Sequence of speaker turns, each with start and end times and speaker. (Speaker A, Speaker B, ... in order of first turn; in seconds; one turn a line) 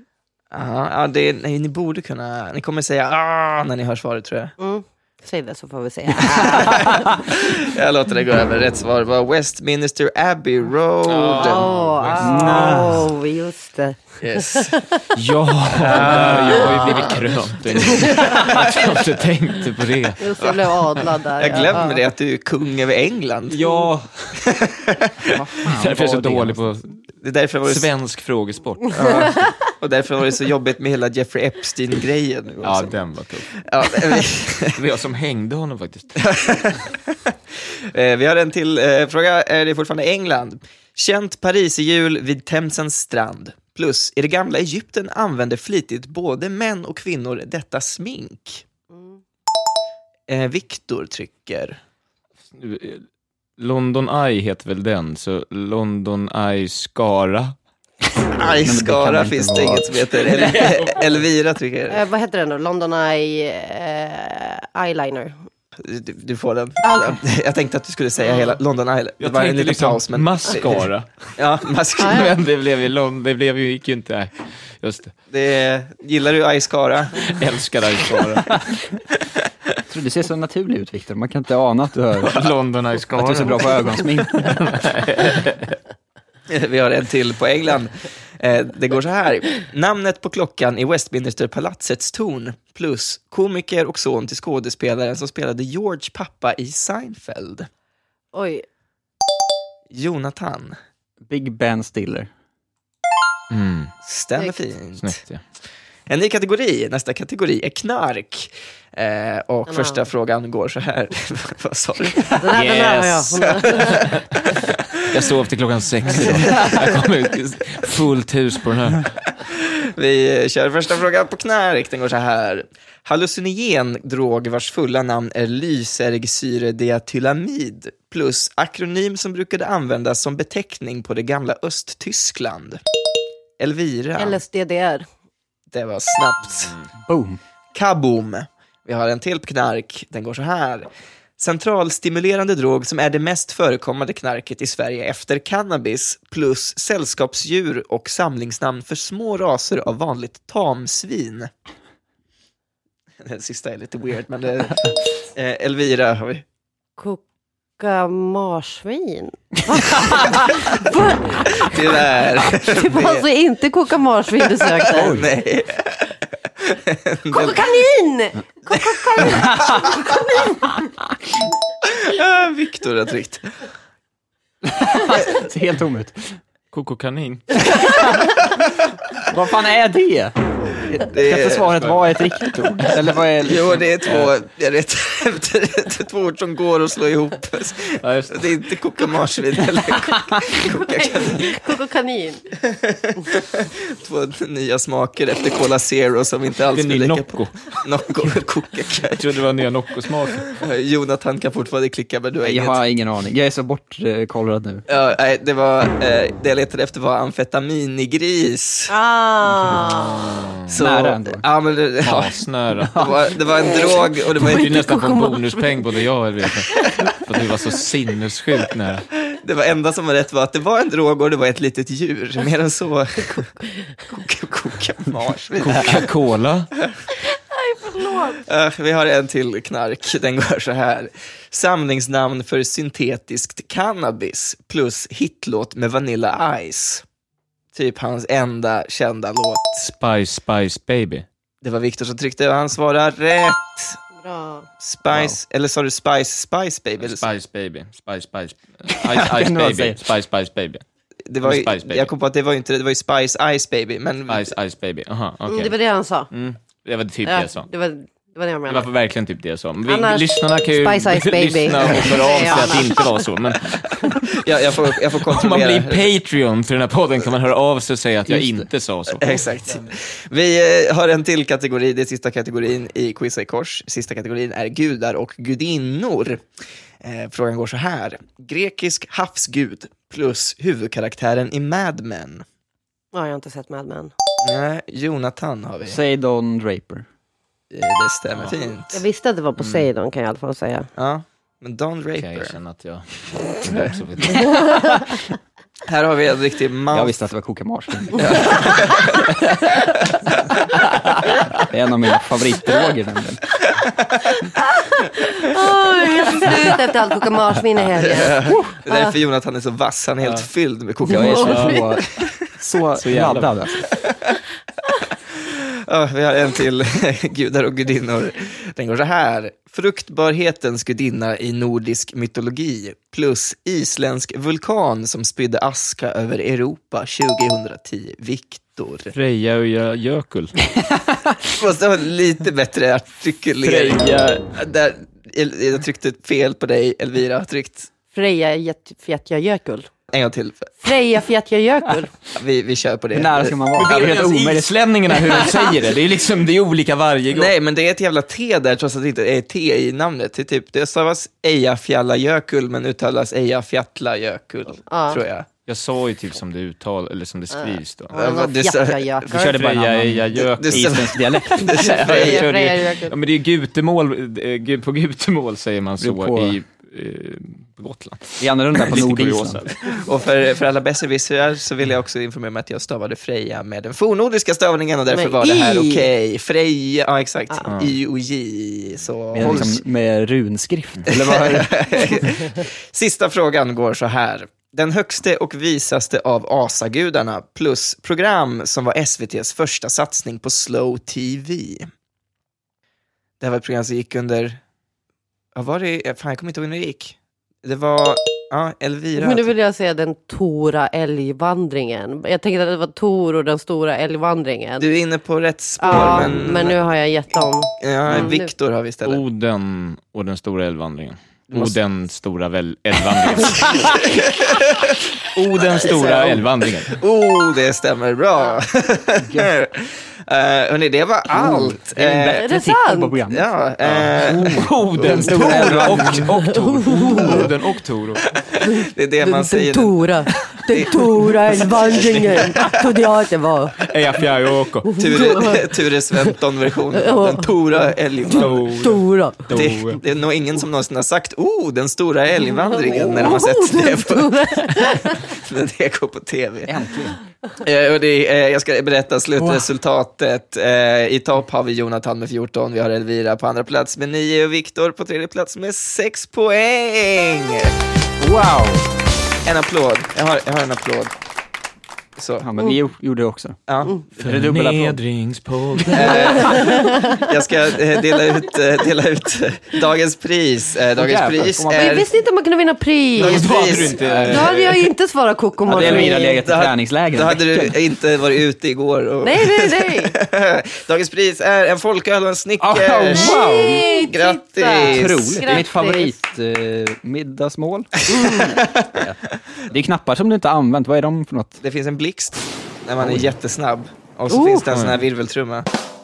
Speaker A: 0.5-4.5
Speaker B: 4.6-7.1
Speaker A: 6.5-11.7
Speaker C: 6.6-7.0
Speaker D: 11.0-12.8
Speaker B: 11.4-15.1
Speaker C: 12.2-13.1
Speaker A: 14.2-14.8
Speaker D: 15.1-20.3
Speaker A: 15.8-17.2
Speaker C: 15.9-16.7
Speaker B: 16.2-17.2
Speaker B: 17.8-18.7
Speaker A: 17.9-18.6
Speaker B: 20.2-22.0
Speaker A: 21.4-23.6
Speaker D: 23.5-24.4
Speaker A: 24.4-25.3
Speaker C: 25.3-26.7
Speaker D: 25.6-26.9
Speaker A: 27.2-27.9
Speaker D: 27.6-29.4
Speaker A: 28.9-33.0
Speaker D: 32.6-36.2
Speaker A: 33.6-34.8
Speaker A: 36.1-48.6
Speaker A: 50.3-51.8
Speaker D: 52.5-53.0
Speaker D: 53.6-57.5
Speaker A: 58.3-62.0
Speaker C: 58.5-60.7
Speaker D: 60.3-61.1
Speaker B: 61.9-65.3
Speaker A: 65.8-72.3
Speaker B: 66.8-67.2
Speaker D: 69.2-71.3
Speaker B: 72.0-72.3
Speaker D: 72.0-75.1
Speaker A: 75.3-77.3
Speaker D: 77.2-78.6
Speaker C: 79.9-82.5
Speaker D: 82.2-85.8
Speaker C: 83.1-84.6
Speaker A: 86.5-97.7
Speaker B: 98.3-98.6
Speaker A: 99.9-100.8
Speaker C: 101.2-102.3
Speaker D: 103.5-103.9
Speaker A: 104.0-105.2
Speaker D: 105.0-105.4
Speaker A: 106.1-112.5
Speaker B: 109.7-110.0
Speaker B: 112.3-114.1
Speaker D: 112.5-114.2
Speaker A: 113.5-115.3
Speaker D: 114.9-119.1
Speaker A: 116.5-116.8
Speaker A: 119.4-132.8
Speaker A: 133.6-134.4
Speaker B: 134.2-135.1
Speaker A: 135.7-136.8
Speaker C: 137.0-137.4
Speaker A: 137.7-151.5
Speaker A: 153.2-156.4
Speaker B: 157.0-157.2
Speaker B: 157.8-165.2
Speaker A: 161.6-163.2
Speaker A: 164.6-167.7
Speaker C: 164.9-165.3
Speaker B: 167.3-170.5
Speaker A: 168.7-170.1
Speaker C: 169.2-169.8
Speaker A: 171.8-173.4
Speaker C: 174.6-176.4
Speaker D: 176.7-177.6
Speaker C: 177.7-178.3
Speaker C: 179.2-180.3
Speaker A: 180.9-181.8
Speaker C: 180.9-183.8
Speaker A: 183.4-191.5
Speaker D: 188.0-188.5
Speaker B: 190.5-192.5
Speaker A: 192.6-199.2
Speaker D: 196.7-198.3
Speaker D: 199.0-200.5
Speaker A: 200.5-202.8
Speaker C: 202.4-204.8
Speaker A: 204.9-208.9
Speaker B: 208.9-210.4
Speaker A: 210.7-212.4
Speaker C: 210.7-211.4
Speaker D: 212.0-213.1
Speaker A: 212.9-214.8
Speaker B: 213.7-215.8
Speaker D: 214.3-219.0
Speaker A: 219.2-226.1
Speaker D: 225.6-226.7
Speaker B: 227.2-228.4
Speaker A: 228.3-237.0
Speaker A: 237.7-239.9
Speaker D: 239.8-241.2
Speaker A: 241.6-244.0
Speaker B: 244.2-244.7
Speaker A: 244.8-247.2
Speaker D: 247.0-250.8
Speaker C: 248.9-250.0
Speaker A: 251.3-254.5
Speaker D: 251.4-252.1
Speaker D: 254.3-255.8
Speaker B: 255.5-256.3
Speaker D: 256.3-257.7
Speaker B: 257.2-258.9
Speaker D: 258.7-264.3
Speaker B: 259.9-263.3
Speaker A: 264.1-266.1
Speaker D: 264.8-269.9
Speaker C: 268.3-268.7
Speaker A: 269.2-276.4
Speaker A: 277.0-282.4
Speaker B: 283.1-284.1
Speaker A: 284.4-286.0
Speaker C: 285.8-287.1
Speaker A: 287.7-289.0
Speaker B: 288.9-290.9
Speaker D: 289.6-289.8
Speaker A: 290.9-292.6
Speaker D: 292.1-295.0
Speaker A: 293.7-294.0
Speaker B: 294.5-295.0
Speaker A: 295.9-297.1
Speaker C: 296.9-298.7
Speaker A: 298.1-299.3
Speaker C: 301.7-303.4
Speaker B: 304.8-309.1
Speaker A: 308.0-312.3
Speaker C: 310.2-310.5
Speaker C: 311.0-313.9
Speaker D: 311.3-311.9
Speaker D: 312.9-313.6
Speaker A: 313.9-314.3
Speaker A: 315.3-329.1
Speaker D: 329.1-330.6
Speaker A: 331.4-337.9
Speaker D: 333.6-334.4
Speaker B: 338.1-339.9
Speaker A: 340.1-340.7
Speaker B: 340.8-342.1
Speaker A: 342.3-344.1
Speaker C: 343.1-344.7
Speaker D: 343.7-347.5
Speaker C: 345.3-345.5
Speaker A: 347.3-355.5
Speaker B: 354.8-355.2
Speaker D: 355.7-358.1
Speaker B: 357.6-359.6
Speaker A: 358.1-359.5
Speaker D: 359.3-369.8
Speaker C: 359.3-361.8
Speaker A: 360.4-362.5
Speaker B: 361.8-363.1
Speaker C: 366.0-366.6
Speaker C: 368.4-369.7
Speaker A: 369.8-379.8
Speaker B: 375.1-376.1
Speaker D: 377.6-377.9
Speaker C: 379.3-382.3
Speaker D: 379.4-379.7
Speaker A: 381.1-391.9
Speaker A: 393.4-394.6
Speaker A: 395.5-399.5
Speaker B: 399.1-404.9
Speaker A: 404.8-406.8
Speaker B: 405.8-408.5
Speaker A: 407.8-409.2
Speaker D: 409.0-414.1
Speaker A: 411.5-411.8
Speaker A: 413.6-415.0
Speaker D: 415.2-417.0
Speaker A: 415.7-422.4
Speaker C: 419.2-419.5
Speaker C: 421.3-423.5
Speaker B: 422.2-423.1
Speaker A: 423.3-426.2
Speaker D: 423.8-428.3
Speaker C: 424.2-427.4
Speaker B: 426.4-427.5
Speaker A: 428.4-432.9
Speaker B: 428.6-433.8
Speaker D: 431.9-432.7
Speaker D: 433.9-434.9
Speaker B: 434.8-436.4
Speaker A: 435.0-438.7
Speaker B: 436.9-439.5
Speaker D: 438.3-440.0
Speaker A: 439.5-446.7
Speaker B: 442.7-445.2
Speaker C: 446.6-447.2
Speaker A: 447.6-457.7
Speaker C: 449.4-449.7
Speaker C: 458.2-458.9
Speaker A: 459.4-461.1
Speaker A: 462.1-462.5
Speaker C: 462.4-463.6
Speaker A: 463.7-463.9
Speaker C: 464.1-465.0
Speaker D: 464.2-466.7
Speaker A: 465.9-472.1
Speaker B: 466.3-467.3
Speaker C: 470.9-472.0
Speaker B: 471.7-476.5
Speaker A: 473.1-474.4
Speaker D: 473.1-474.9
Speaker C: 473.9-474.4
Speaker C: 475.6-477.8
Speaker A: 475.7-485.6
Speaker B: 479.2-480.2
Speaker C: 482.6-483.9
Speaker B: 483.1-486.2
Speaker C: 484.9-488.4
Speaker B: 488.1-488.6
Speaker A: 488.2-488.9
Speaker C: 489.7-491.6
Speaker A: 491.6-495.7
Speaker C: 493.0-493.2
Speaker B: 494.3-494.6
Speaker D: 494.7-495.0